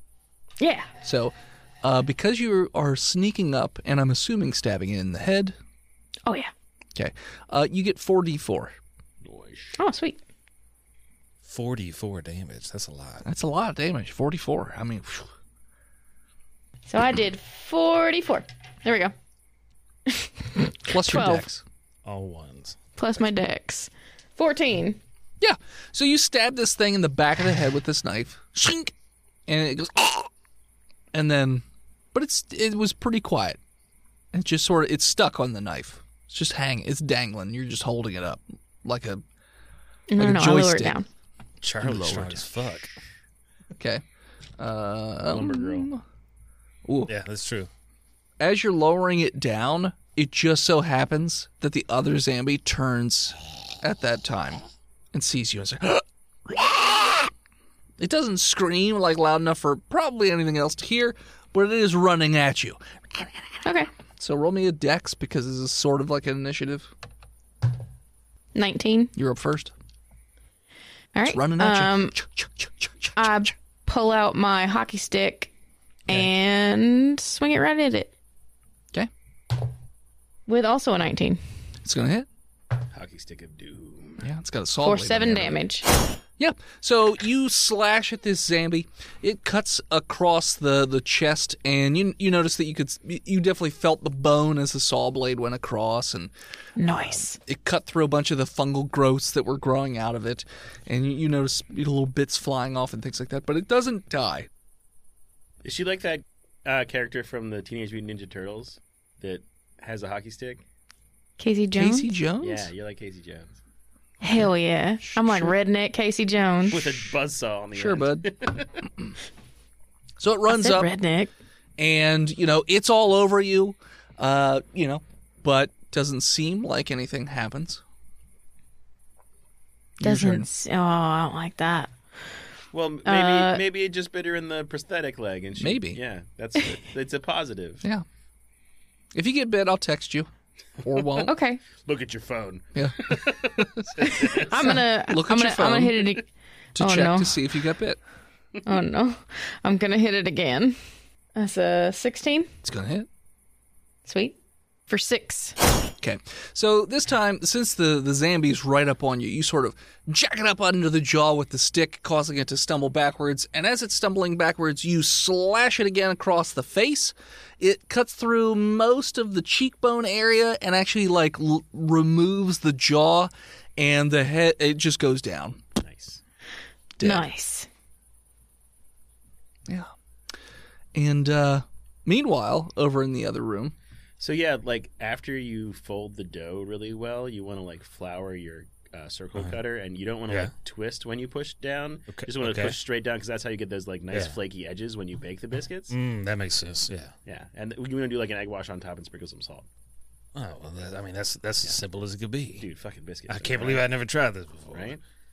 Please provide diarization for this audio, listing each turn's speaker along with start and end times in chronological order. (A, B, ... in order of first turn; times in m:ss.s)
0:00.6-0:00.9 A
0:01.0-0:05.6 B
0:06.2-0:06.5 A
0:06.9-0:08.8 B
0:09.2-0:09.8 C
0:09.8-0:10.2 A
0:11.4-0:13.2 D
0:13.2-0:15.3 B
0:16.9-0:19.1 A
0:20.1-0:21.4 A
0:20.9-0:21.6 B
0:22.0-0:22.8 D
0:23.0-0:25.0 A
0:25.4-0:28.9 B
0:29.5-0:30.3 B
0:31.1-0:33.6 B
0:34.3-0:39.2 B
0:40.1-0:41.0 A
0:40.2-0:41.0 B
0:41.6-0:43.0 D
0:41.8-0:42.4 B
0:43.8-0:44.0 B
0:44.6-0:46.0 B
0:45.3-0:45.9 C
0:46.9-0:47.1 B
0:47.1-0:47.7 D
0:48.4-0:54.6 B
0:55.1-0:57.3 B
0:58.0-1:03.3 B
1:03.6-1:03.9 A
1:04.2-1:06.9 B
1:08.6-1:09.1 A
1:09.1-1:09.7 B
1:11.1-1:12.1 A
1:11.2-1:13.2 B
1:13.2-1:15.5 A
1:16.1-1:18.1 A
1:20.5-1:21.4 A
1:21.8-1:22.3 B
1:22.9-1:24.2 C
1:24.2-1:25.6 B
1:24.8-1:25.9 A
1:26.4-1:36.3 B
1:36.8-1:37.4 A
1:36.9-1:44.5 B
1:45.6-1:50.6 C
1:51.4-1:52.1 A
1:51.8-1:52.7 B
1:52.4-1:53.6 C
1:54.2-1:56.8 A
1:55.0-1:55.5 B
1:56.7-1:58.7 C
1:57.7-1:58.3 B
2:00.2-2:00.9 B
2:00.5-2:01.3 A
2:01.8-2:07.8 B
2:10.0-2:10.5 B
2:10.0-2:11.9 A
2:12.7-2:17.8 C
2:13.1-2:13.6 A
2:15.6-2:16.0 B
2:19.1-2:20.3 B
2:20.8-2:21.3 B
2:21.2-2:21.6 A
2:21.8-2:24.6 C
2:22.7-2:26.1 B
2:24.0-2:27.4 A
2:26.8-2:28.0 B
2:28.6-2:30.8 A
2:31.4-2:32.5 A
2:32.6-2:33.1 B
2:34.1-2:34.4 A
2:34.9-2:35.6 A
2:36.0-2:55.6 B
2:55.8-2:56.2 C
2:57.0-2:57.3 B
2:57.0-2:57.7 A
3:00.9-3:03.7 B
3:04.2-3:15.9 C
3:12.1-3:12.8 D
3:15.9-3:17.1 D
3:17.2-3:19.7 C
3:20.4-3:22.6 D
3:22.6-3:23.9 C
3:23.3-3:24.9 D
3:24.7-3:25.0 C